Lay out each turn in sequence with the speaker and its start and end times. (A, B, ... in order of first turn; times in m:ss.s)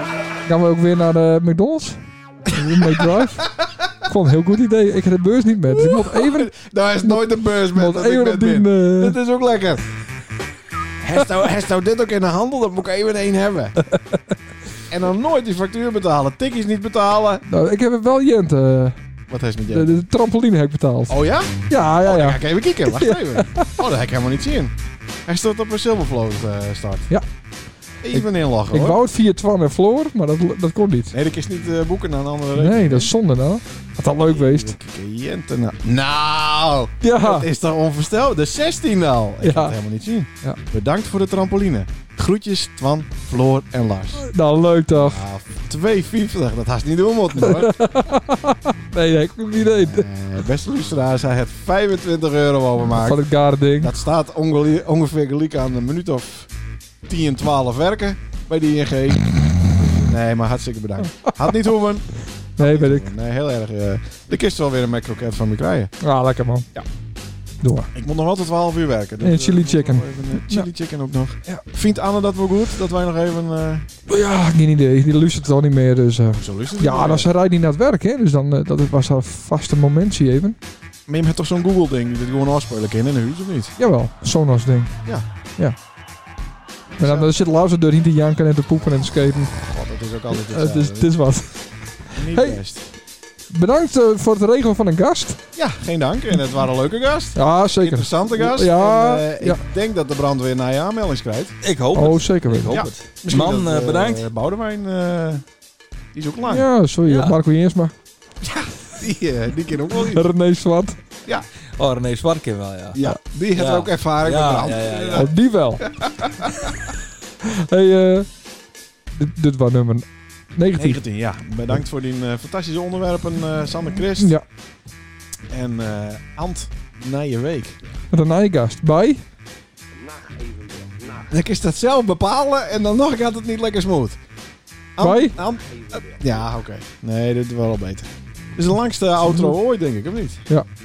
0:00.4-0:06.5 A
0:02.7-0:04.0 B
0:05.6-0:09.8 B
0:07.0-0:09.2 A
0:11.0-0:13.8 B
0:14.9-0:17.4 B
0:17.4-0:19.0 A
0:19.3-0:20.0 B
0:19.7-0:21.2 A
0:21.1-0:27.1 B
0:21.7-0:23.8 A
0:28.0-0:29.0 B
0:28.1-0:31.2 A
0:31.1-0:33.1 B
0:32.6-0:34.7 A
0:34.3-0:44.2 B
0:37.0-0:37.5 A
0:39.4-0:39.8 A
0:44.2-0:45.2 A
0:44.9-0:47.8 B
0:47.4-0:50.1 A
0:49.6-0:53.2 B
0:52.9-0:53.9 A
0:53.8-0:56.5 B
0:57.0-1:05.9 B
1:02.6-1:03.1 A
1:06.0-1:06.6 A
1:07.6-1:07.9 A
1:07.9-1:13.9 B
1:09.2-1:10.7 A
1:14.1-1:20.6 A
1:16.3-1:17.3 B
1:21.1-1:23.7 B
1:23.8-1:25.0 A
1:26.9-1:27.3 B
1:27.0-1:29.6 A
1:29.6-1:31.2 B
1:30.3-1:32.6 A
1:32.1-1:32.9 B
1:33.5-1:35.4 A
1:35.5-1:41.6 B
1:37.3-1:39.6 A
1:41.6-1:44.3 C
1:41.9-1:42.8 A
1:42.7-1:45.4 B
1:46.1-1:46.7 B
1:46.5-1:47.9 A
1:47.0-1:47.3 C
1:48.4-1:50.3 B
1:50.1-1:51.0 A
1:51.8-1:53.0 C
1:52.9-1:56.7 B
1:53.5-1:55.3 C
1:55.1-1:55.8 A
1:57.4-1:58.3 A
1:59.1-2:01.0 A
2:00.8-2:04.3 B
2:04.2-2:04.4 A
2:05.5-2:07.8 B
2:08.1-2:09.2 A
2:11.0-2:14.2 B
2:15.0-2:20.5 B
2:15.0-2:15.3 A
2:19.2-2:19.5 A